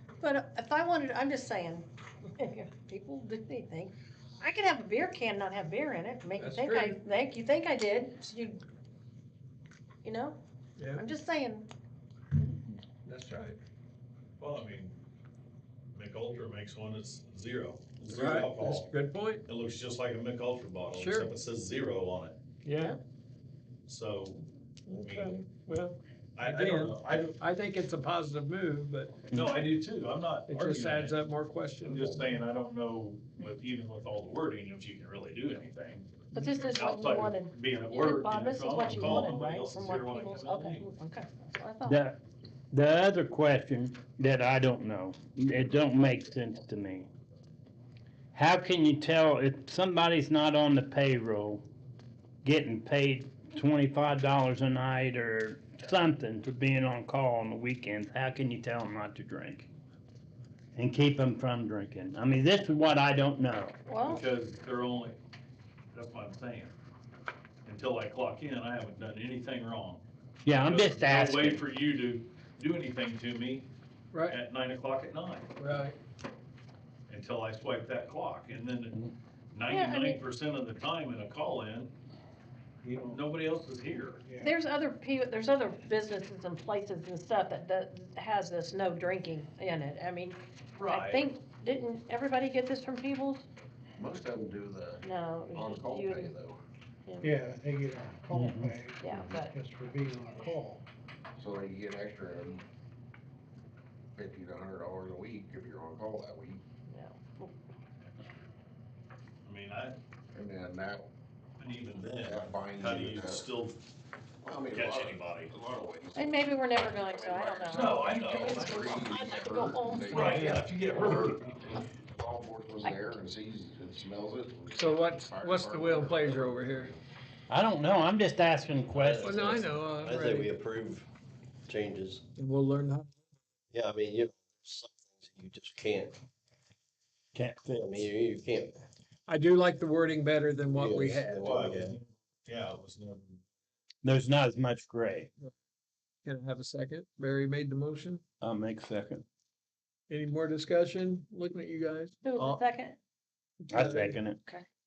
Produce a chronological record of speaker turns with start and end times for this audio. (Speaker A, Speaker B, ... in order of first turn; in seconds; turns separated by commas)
Speaker A: 0.2-8.6, Speaker B: 6.4-7.0, Speaker A: 10.0-10.4, Speaker B: 10.8-11.0, Speaker A: 10.9-11.7, Speaker B: 13.0-13.6, Speaker C: 14.4-15.0, Speaker C: 15.9-18.9, Speaker B: 18.1-19.4, Speaker C: 19.4-22.4, Speaker B: 20.9-21.3, Speaker B: 22.6-23.0, Speaker C: 23.9-24.4, Speaker B: 24.9-29.3, Speaker C: 25.0-25.3, Speaker C: 26.4-27.4, Speaker C: 29.3-31.2, Speaker D: 29.3-29.6, Speaker B: 30.5-32.3, Speaker C: 31.9-40.9, Speaker A: 36.3-42.0, Speaker D: 39.0-39.2, Speaker D: 41.9-42.2, Speaker D: 42.7-47.1, Speaker D: 48.3-51.7, Speaker D: 52.4-59.7, Speaker D: 60.7-63.8, Speaker A: 63.9-64.2, Speaker C: 64.0-65.2, Speaker C: 65.9-66.7, Speaker C: 67.6-70.0, Speaker D: 70.4-71.6, Speaker C: 70.6-73.7, Speaker B: 74.1-74.4, Speaker C: 74.3-75.5, Speaker B: 75.6-76.0, Speaker C: 77.1-79.0, Speaker C: 79.5-81.9, Speaker A: 79.7-80.2, Speaker E: 82.8-83.2, Speaker C: 83.0-84.2, Speaker E: 84.2-84.5, Speaker A: 84.4-93.5, Speaker C: 90.8-91.3, Speaker F: 94.0-96.6, Speaker A: 95.0-96.3, Speaker E: 97.2-100.8, Speaker D: 98.3-98.8, Speaker A: 99.0-99.5, Speaker F: 101.4-102.7, Speaker F: 104.2-106.6, Speaker A: 106.9-107.5, Speaker C: 109.4-110.0, Speaker F: 110.3-111.1, Speaker C: 111.6-113.8, Speaker F: 112.2-113.5, Speaker F: 114.4-127.0, Speaker C: 114.7-115.5, Speaker A: 116.2-120.7, Speaker C: 117.7-119.0, Speaker C: 120.1-121.5, Speaker A: 122.8-123.2, Speaker B: 124.7-126.9, Speaker D: 127.5-129.5, Speaker G: 128.9-131.1, Speaker B: 129.2-130.5, Speaker G: 131.7-132.2, Speaker B: 132.3-133.1, Speaker G: 133.7-136.2, Speaker D: 137.3-138.1, Speaker G: 137.8-138.8, Speaker B: 139.2-141.5, Speaker G: 140.7-142.0, Speaker C: 141.4-143.4, Speaker D: 144.0-145.3, Speaker B: 146.2-148.2, Speaker D: 148.4-149.2, Speaker B: 150.1-152.6, Speaker A: 152.2-153.0, Speaker D: 153.7-154.4, Speaker B: 153.7-154.2